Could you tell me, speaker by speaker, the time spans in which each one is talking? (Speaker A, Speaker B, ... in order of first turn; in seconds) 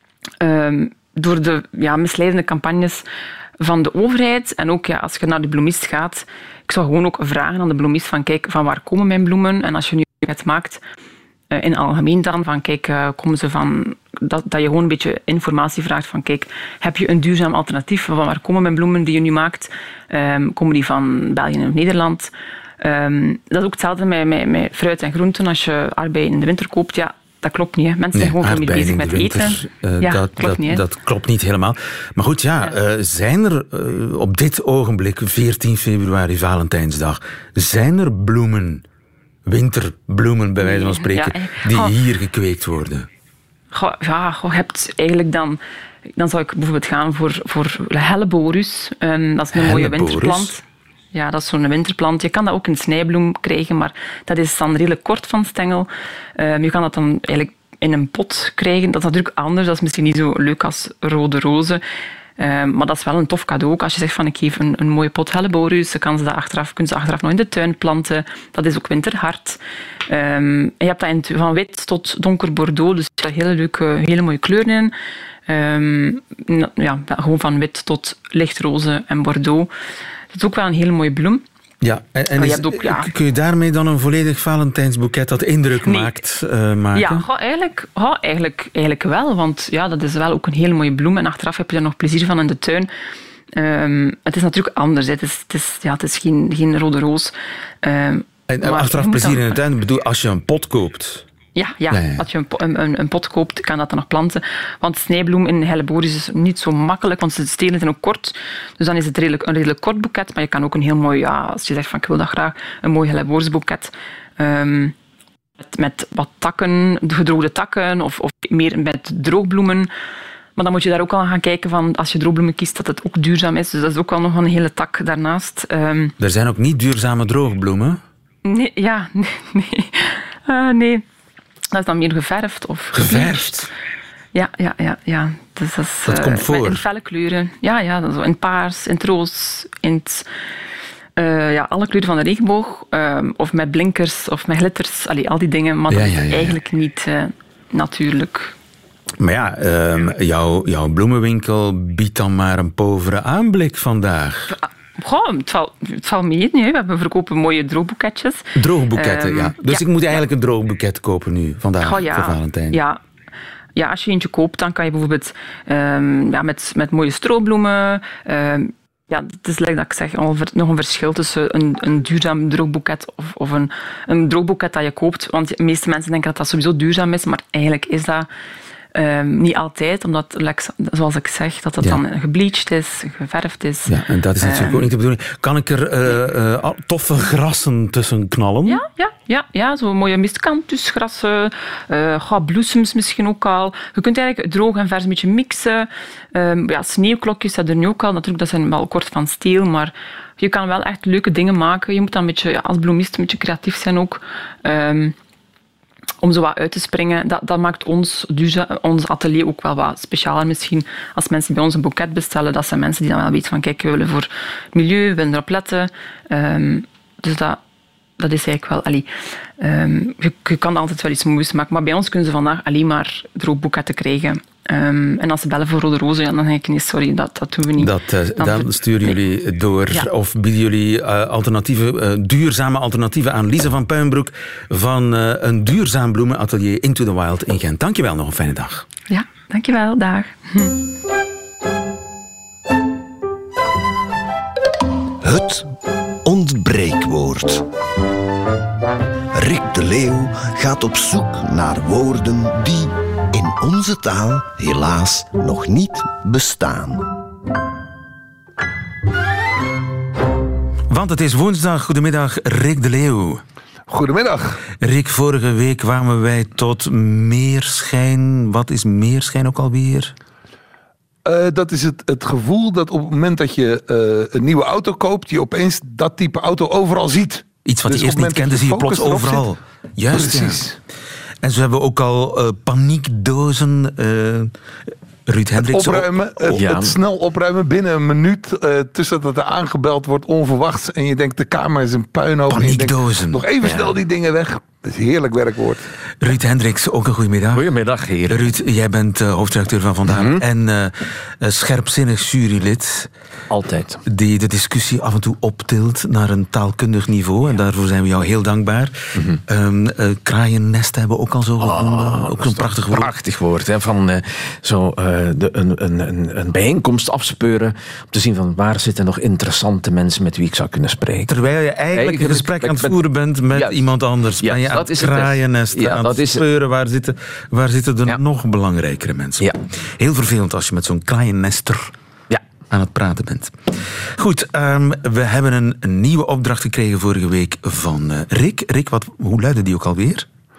Speaker A: 0.4-3.0, 3.6-10.8, 11.5-30.8, 40.6-41.9, 43.7-45.6, 46.1-50.6, 51.1-61.8, 62.4-74.9, 75.5-79.7, 80.3-81.4, 82.3-83.1, 85.8-86.1, 86.9-92.9, 93.5-99.6, 101.5-114.9, 115.6-119.9, 120.5-126.1, 128.4-131.0, 131.7-133.5, 134.3-140.3, 141.2-148.5, 154.5-160.2, 161.8-163.0, 163.8-178.3, 178.9-184.9, 188.7-205.1, 206.2-217.6, 218.2-229.1, 239.1-240.8
Speaker B: 28.1-38.8, 39.5-43.1, 49.5-50.5, 81.8-87.2, 98.5-101.2, 101.9-102.2, 126.2-128.0, 132.9-133.7, 136.1-136.8, 145.9-146.6, 149.2-154.5, 158.6-162.8, 183.9-188.8, 227.8-238.8, 260.9-263.4, 264.8-270.1, 277.6-280.6, 281.4-284.5, 285.2-286.6, 292.5-293.4, 296.2-297.6, 298.3-303.1, 304.1-313.1, 321.3-331.9, 332.7-340.3
Speaker C: 245.2-245.7, 246.2-247.6, 249.3-257.1
Speaker D: 263.9-264.6, 271.2-279.5, 280.1-280.8, 285.6-295.8
Speaker E: 286.5-286.9, 293.6-293.9, 297.5-298.5, 300.1-300.4, 303.5-304.0, 311.6-321.3, 321.9-323.0, 323.5-323.9, 324.4-326.4